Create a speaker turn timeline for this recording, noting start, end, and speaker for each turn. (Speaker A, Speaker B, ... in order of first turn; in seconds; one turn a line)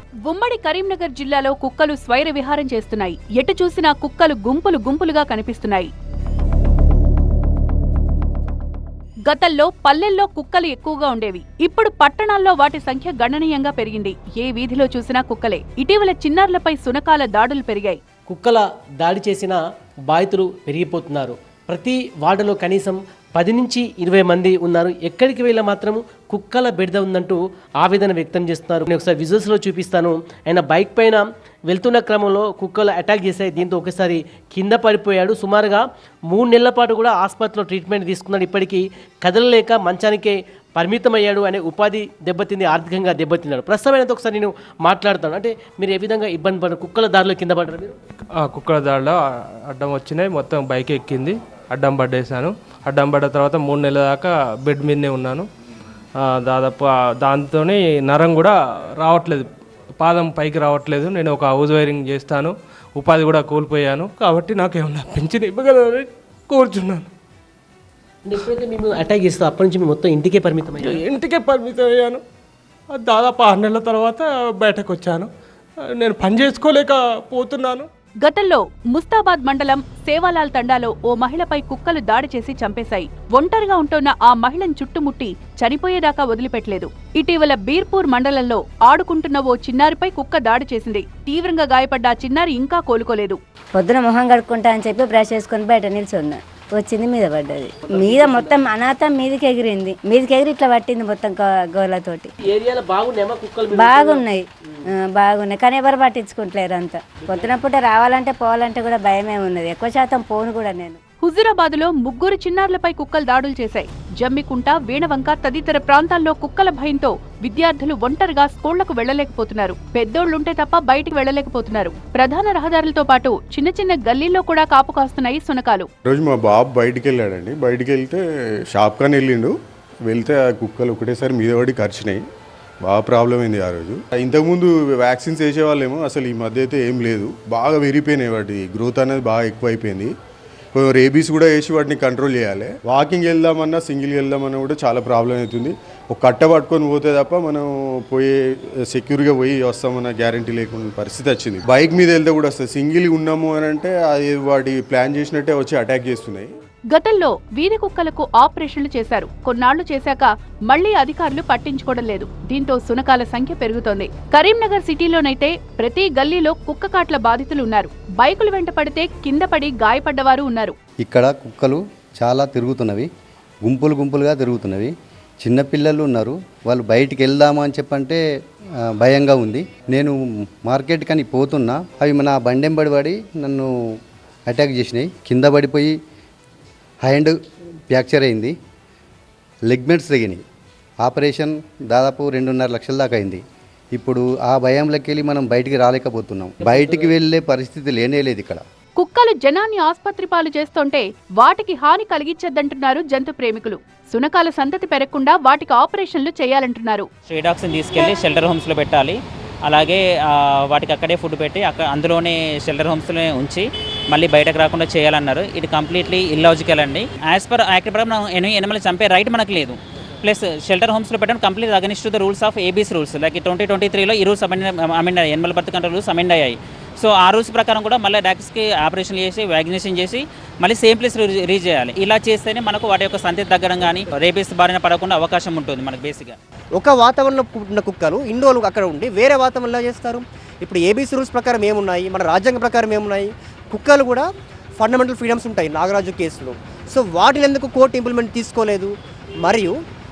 Speaker A: 0.2-5.9
Speaker A: 9.3-18.0
Speaker B: 18.3-48.0
Speaker C: 48.4-55.5
Speaker C: 56.4-59.5
Speaker C: 60.0-67.1
Speaker B: 68.2-71.0
Speaker C: 71.0-72.2
Speaker C: 73.0-75.3
Speaker C: 76.0-77.8
Speaker A: 78.2-93.4
Speaker D: 93.7-102.3
Speaker B: 97.8-98.7
Speaker B: 102.4-104.2
Speaker D: 103.8-104.5
Speaker D: 105.0-111.0
Speaker B: 107.2-107.5
Speaker A: 111.2-125.9
Speaker E: 126.1-129.5
Speaker E: 130.1-132.2
Speaker E: 132.8-140.1
Speaker E: 140.8-156.5
Speaker A: 156.9-170.8
Speaker F: 171.0-173.1
Speaker F: 173.7-174.9
Speaker F: 175.4-178.2
Speaker F: 179.0-183.7
Speaker F: 184.5-186.0
Speaker F: 187.1-187.4
Speaker F: 187.9-188.6
Speaker F: 189.7-190.4
Speaker F: 191.0-193.4
Speaker F: 193.9-198.6
Speaker A: 199.0-207.1
Speaker G: 207.3-236.4
Speaker H: 236.8-244.3
Speaker H: 244.8-248.9
Speaker H: 249.4-249.8